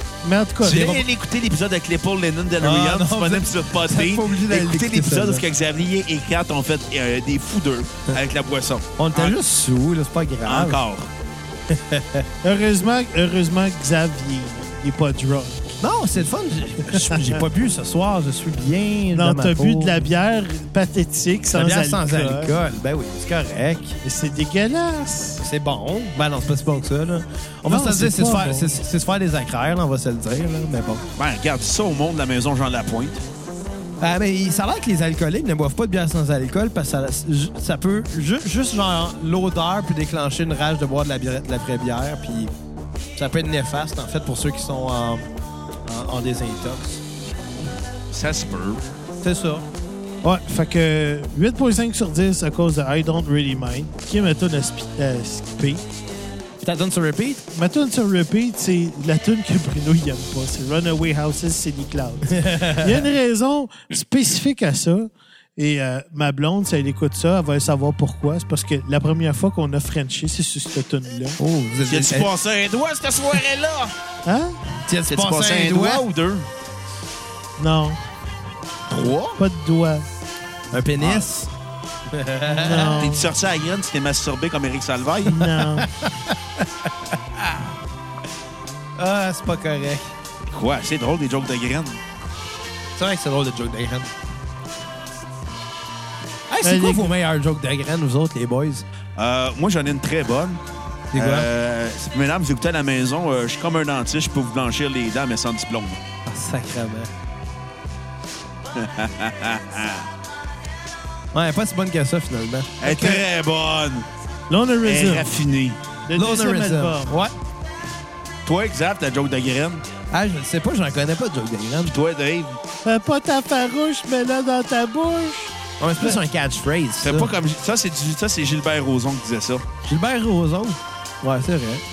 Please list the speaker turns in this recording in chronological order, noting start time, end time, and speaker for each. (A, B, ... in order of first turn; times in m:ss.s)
0:00.2-0:01.0 A
0:00.6-0:09.4 B
0:02.6-0:05.4 C
0:09.0-0:10.8 C
0:10.4-0:11.1 B
0:11.7-0:12.3 C
0:12.4-0:15.8 A
0:15.8-0:20.0 C
0:16.9-0:17.4 A
0:19.1-0:22.6 A
0:21.5-0:24.0 C
0:24.0-0:25.4 A
0:25.4-0:31.0 C
0:27.7-0:28.8 A
0:31.2-0:33.2 B
0:34.0-0:42.5 C
0:43.2-0:45.3 C
0:45.8-0:47.0 C
0:47.6-0:49.0 B
0:49.2-0:49.6 C
0:50.2-0:55.8 A
0:56.6-0:57.4 C
0:57.5-1:11.4 A
1:02.3-1:03.0 C
1:11.4-1:12.3 C
1:11.8-1:13.9 B
1:14.2-1:14.6 A
1:14.8-1:16.0 C
1:15.1-1:16.5 B
1:17.6-1:18.0 A
1:18.9-1:19.4 B
1:19.4-1:20.0 A
1:20.7-1:21.5 C
1:21.0-1:21.4 B
1:22.1-1:23.0 C
1:22.5-1:23.3 A
1:23.0-1:25.4 B
1:25.2-1:25.8 A
1:25.7-1:27.7 C
1:29.0-1:30.1 C
1:30.5-1:32.0 B
1:33.0-1:34.1 C
1:36.5-1:38.8 C
1:36.6-1:37.1 A
1:39.2-1:40.6 B
1:41.1-1:41.5 C
1:41.1-1:46.0 B
1:46.2-1:47.1 C
1:48.7-1:50.1 B
1:51.3-1:53.2 C
1:52.8-1:54.1 B
1:54.5-1:55.4 A
1:54.8-1:55.8 B
1:56.1-1:57.1 A
1:56.2-1:57.3 C
1:58.4-1:59.8 B
2:00.1-2:01.9 C
2:01.8-2:02.6 B
2:02.8-2:06.2 A
2:05.8-2:07.3 C
2:07.0-2:09.6 B
2:09.8-2:11.8 C